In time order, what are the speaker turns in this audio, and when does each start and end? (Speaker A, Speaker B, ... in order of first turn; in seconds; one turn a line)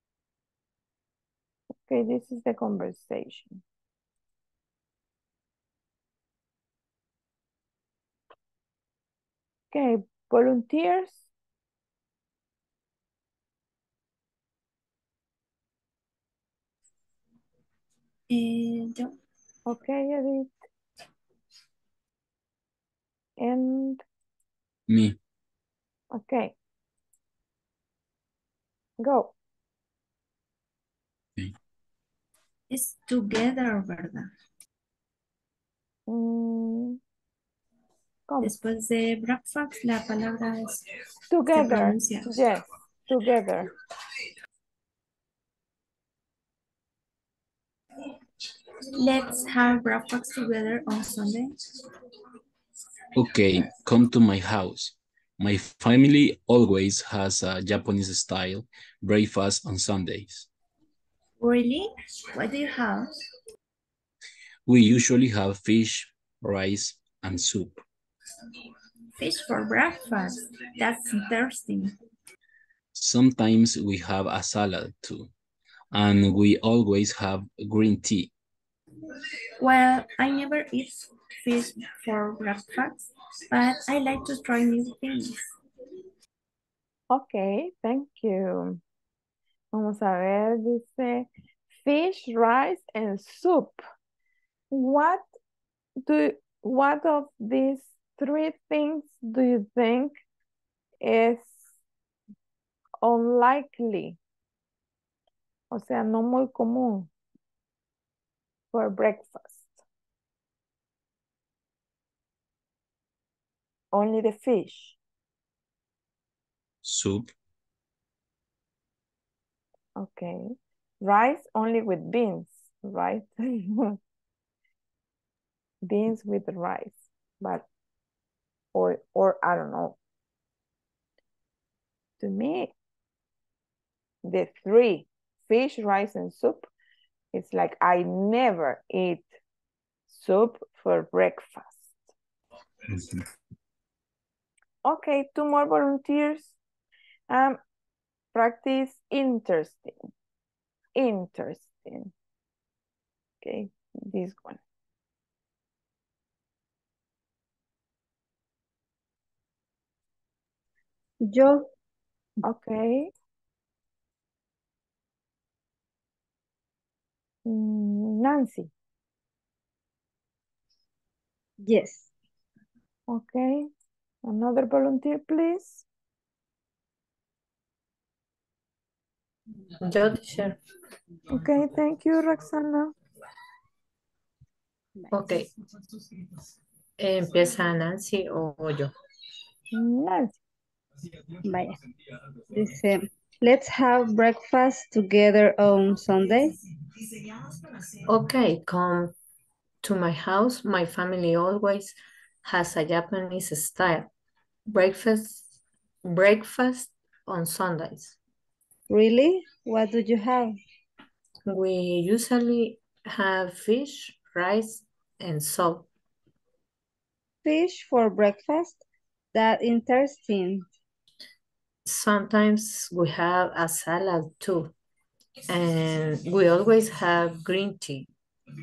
Speaker A: 1.8-3.6
Speaker A: 9.7-11.2
Speaker B: 18.3-19.1
Speaker A: 19.7-20.6
Speaker A: 23.4-24.0
Speaker C: 24.9-25.2
Speaker A: 26.1-26.5
Speaker A: 29.0-29.3
Speaker B: 32.7-34.3
Speaker A: 36.1-37.0
Speaker A: 38.3-38.5
Speaker B: 38.4-40.8
Speaker A: 41.3-43.7
Speaker B: 41.5-42.3
Speaker B: 49.0-51.5
Speaker C: 53.1-60.5
Speaker B: 61.4-63.2
Speaker C: 64.7-67.8
Speaker B: 69.2-71.9
Speaker C: 72.9-75.3
Speaker C: 75.9-78.3
Speaker B: 79.6-85.3
Speaker A: 87.1-88.8
Speaker A: 89.7-93.8
Speaker A: 94.7-95.2
Speaker A: 96.0-100.2
Speaker A: 101.0-101.7
Speaker A: 103.0-104.2
Speaker A: 105.7-107.1
Speaker A: 108.7-109.8
Speaker A: 113.9-115.0
Speaker C: 116.8-117.3
Speaker A: 120.0-124.0
Speaker A: 125.8-127.6
Speaker A: 128.7-129.9
Speaker A: 132.2-132.7
Speaker A: 134.2-136.7
Speaker A: 137.3-139.3
Speaker A: 140.1-141.9
Speaker C: 142.9-143.2
Speaker A: 144.8-146.6
Speaker A: 147.3-147.6
Speaker A: 148.3-149.9
Speaker A: 150.9-152.1
Speaker A: 153.4-154.6
Speaker D: 161.2-161.7
Speaker A: 162.4-163.1
Speaker A: 167.4-168.7
Speaker D: 171.6-172.1
Speaker A: 173.1-173.7
Speaker A: 174.2-175.8
Speaker E: 179.8-180.6
Speaker A: 181.3-182.9
Speaker E: 185.1-185.5
Speaker E: 187.0-188.9
Speaker A: 189.7-190.4
Speaker D: 191.4-191.7
Speaker D: 192.5-196.5
Speaker E: 198.1-199.1
Speaker E: 199.8-204.1
Speaker E: 204.7-205.5
Speaker E: 206.0-208.2
Speaker D: 208.9-210.6
Speaker E: 211.5-215.9
Speaker D: 217.4-220.6
Speaker E: 221.8-224.7
Speaker E: 225.5-228.1